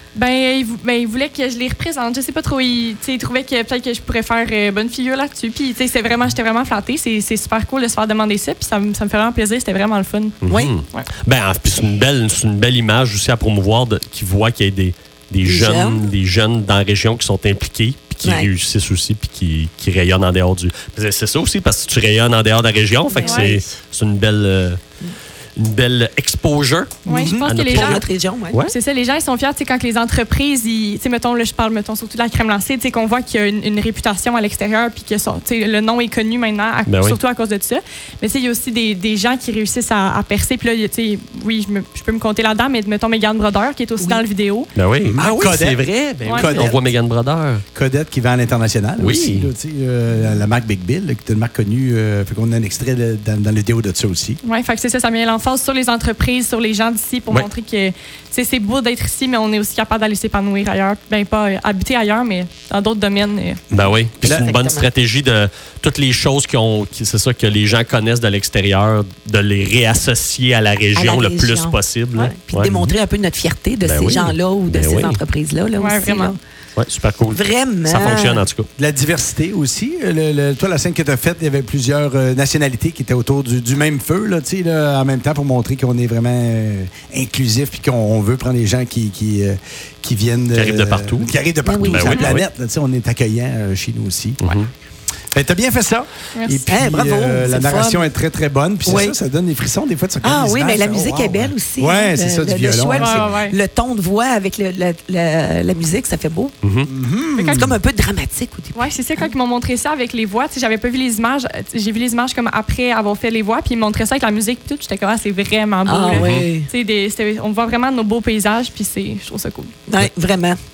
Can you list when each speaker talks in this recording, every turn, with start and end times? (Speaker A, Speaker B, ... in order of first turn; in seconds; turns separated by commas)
Speaker A: 0.1-10.4, Speaker B: 10.4-24.8, Speaker C: 10.5-10.7, Speaker C: 15.4-16.1, Speaker C: 18.2-18.5, Speaker C: 23.1-23.6, Speaker A: 23.2-23.5, Speaker B: 25.6-28.7, Speaker D: 27.1-27.5, Speaker A: 27.1-28.1, Speaker C: 27.7-28.6, Speaker A: 28.6-44.7, Speaker B: 36.9-37.2, Speaker B: 44.8-47.6, Speaker D: 45.1-46.9, Speaker A: 46.2-46.5, Speaker D: 47.8-54.4, Speaker B: 49.0-49.5, Speaker A: 54.5-63.6, Speaker B: 63.7-72.9, Speaker C: 64.2-64.9, Speaker C: 71.0-76.4, Speaker B: 73.8-75.2, Speaker A: 75.8-76.4, Speaker B: 76.8-78.7, Speaker C: 77.3-78.5, Speaker D: 77.9-78.2, Speaker D: 78.8-94.6, Speaker B: 90.5-91.3, Speaker C: 91.7-92.2, Speaker B: 91.8-92.5, Speaker B: 94.4-94.7, Speaker D: 95.3-103.3, Speaker A: 96.3-96.6, Speaker C: 96.7-98.1, Speaker C: 98.9-99.2, Speaker C: 100.2-106.5, Speaker A: 103.0-103.6, Speaker B: 106.6-106.9, Speaker D: 106.9-107.7, Speaker A: 107.4-107.7, Speaker C: 107.5-109.3, Speaker A: 108.8-119.7, Speaker C: 115.9-116.7, Speaker B: 116.1-116.5, Speaker C: 119.9-120.6